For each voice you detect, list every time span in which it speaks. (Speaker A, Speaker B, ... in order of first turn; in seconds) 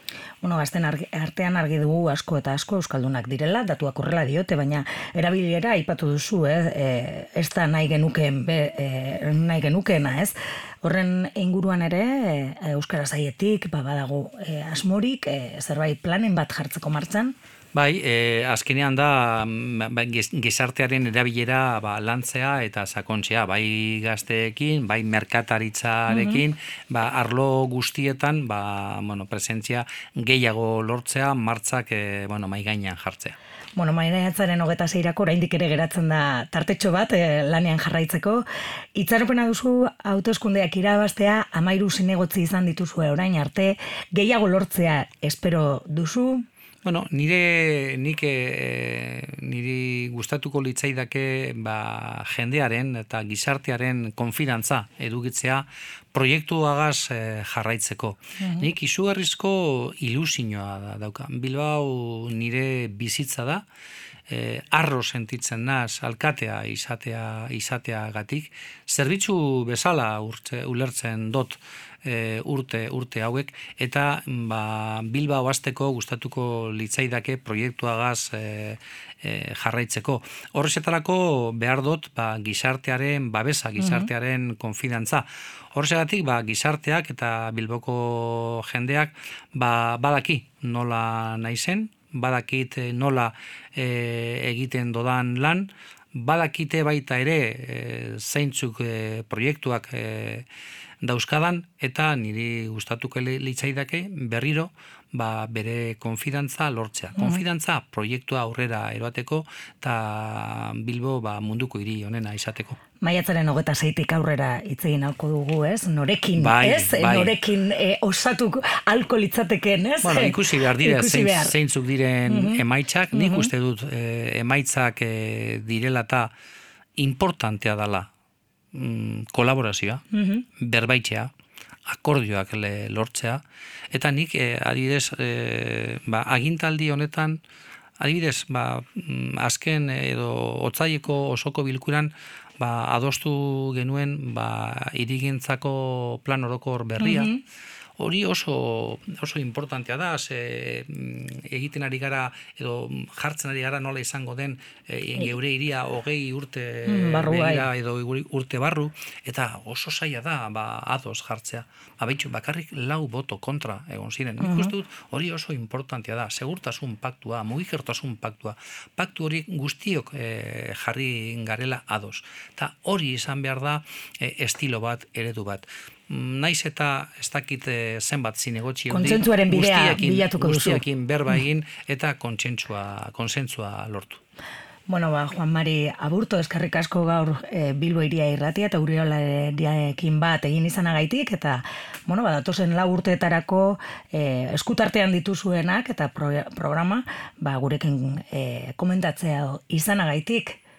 Speaker A: 0.4-17.4, 26.1-26.4, 33.8-46.5, 58.4-58.7, 83.8-84.1, 113.0-121.6, 122.3-122.6, 123.1-123.5, 130.1-130.4, 147.0-147.4, 156.9-157.7, 164.4-164.7, 178.9-180.8, 184.9-200.6
Speaker B: 17.7-33.4, 46.8-63.6, 64.3-100.5, 101.0-112.8, 116.4-117.4, 120.0-126.3, 127.0-128.1, 128.7-130.0, 130.6-131.3, 131.8-137.4, 138.0-147.3, 148.0-184.2